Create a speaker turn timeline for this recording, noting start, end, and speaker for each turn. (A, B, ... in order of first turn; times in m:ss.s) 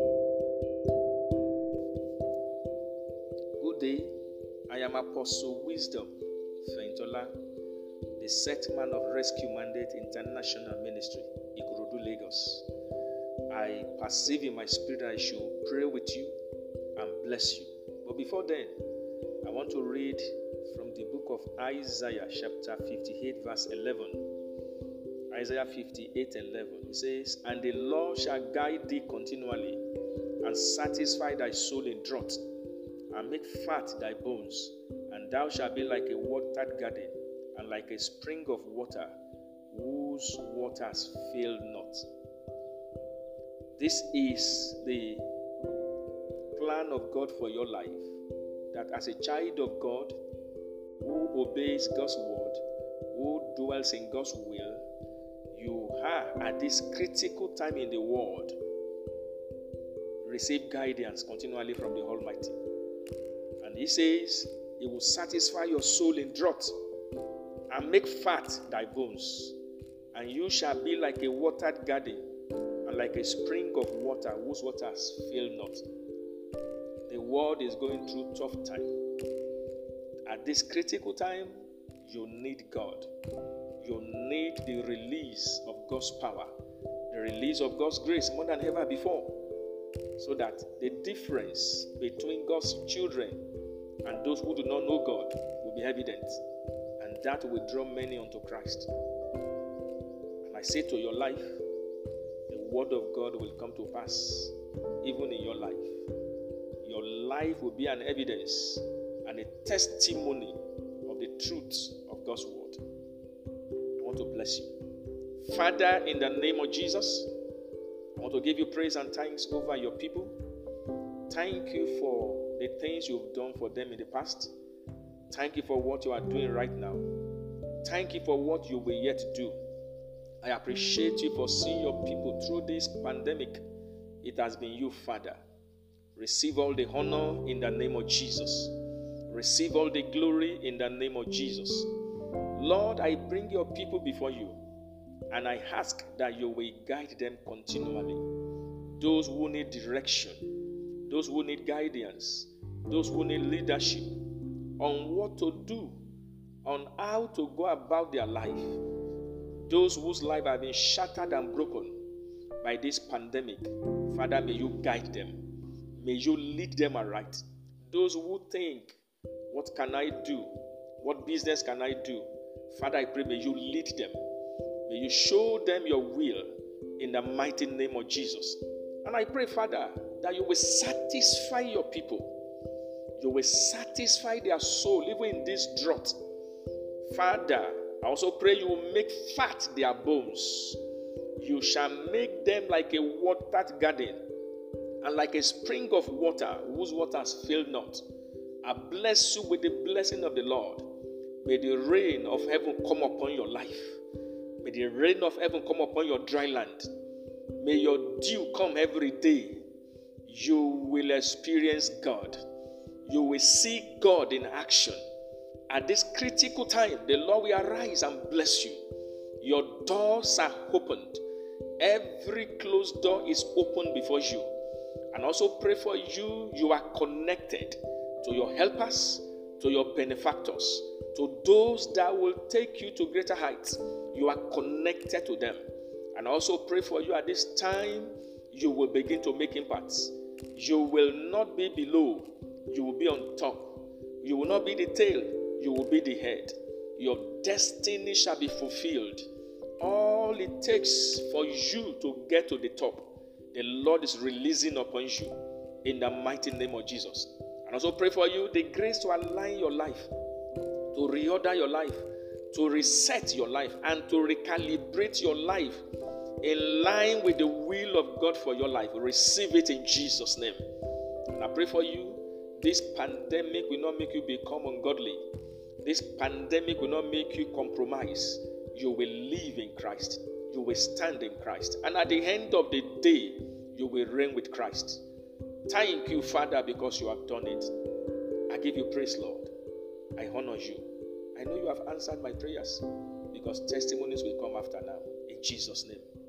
0:03.6-0:04.2 A
0:04.7-0:07.4 A
0:08.2-0:12.7 A
0:13.5-0:16.3 A
0:17.0-0:18.8 A
0:19.4-0:24.3 A
0:25.3-0:29.8 A
0:30.4-0:32.4 A
0:33.1-0:39.1 A
0:39.7-0:42.0 A
0:43.8-0:45.2 A
0:46.5-0:48.0 A
0:48.7-0:50.2 A
0:51.0-0:52.6 A
0:53.1-0:54.8 A
0:55.5-0:58.6 A
1:00.2-1:02.6 A
1:03.6-1:06.7 A
1:07.7-1:09.6 A
1:10.1-1:12.2 A
1:12.8-1:15.8 A
1:17.1-1:18.9 A
1:20.2-1:23.1 A
1:23.8-1:26.5 A
1:27.1-1:29.4 A
1:30.2-1:33.4 A
1:34.0-1:36.4 A
1:37.0-1:38.9 A
1:40.4-1:41.6 A
1:42.5-1:46.0 A
1:46.8-1:52.8 A
1:54.0-1:54.7 A
1:55.4-1:57.3 A
1:58.2-2:00.4 A
2:01.3-2:04.5 A
2:05.3-2:07.0 A
2:07.8-2:09.6 A
2:10.4-2:13.6 A
2:14.2-2:15.4 A
2:16.1-2:18.7 A
2:19.3-2:21.9 A
2:22.5-2:24.6 A
2:25.3-2:28.2 A
2:29.0-2:30.5 A
2:31.0-2:36.0 A
2:36.6-2:38.8 A
2:39.7-2:42.0 A
2:42.6-2:49.0 A
2:49.5-2:54.2 A
2:54.9-3:02.4 A
3:03.2-3:06.2 A
3:07.1-3:10.8 A
3:11.4-3:14.2 A
3:15.0-3:18.0 A
3:18.6-3:20.9 A
3:21.4-3:24.0 A
3:24.6-3:26.9 A
3:27.6-3:29.6 A
3:30.2-3:32.4 A
3:33.0-3:35.0 A
3:35.7-3:38.8 A
3:39.4-3:41.2 A
3:41.8-3:44.5 A
3:45.1-3:55.6 A
3:56.1-4:09.3 A
4:09.8-4:20.1 A
4:20.9-4:25.8 A
4:26.4-4:30.6 A
4:31.3-4:35.2 A
4:35.8-4:45.0 A
4:45.7-4:47.7 A
4:48.5-4:49.5 A
4:50.2-4:56.0 A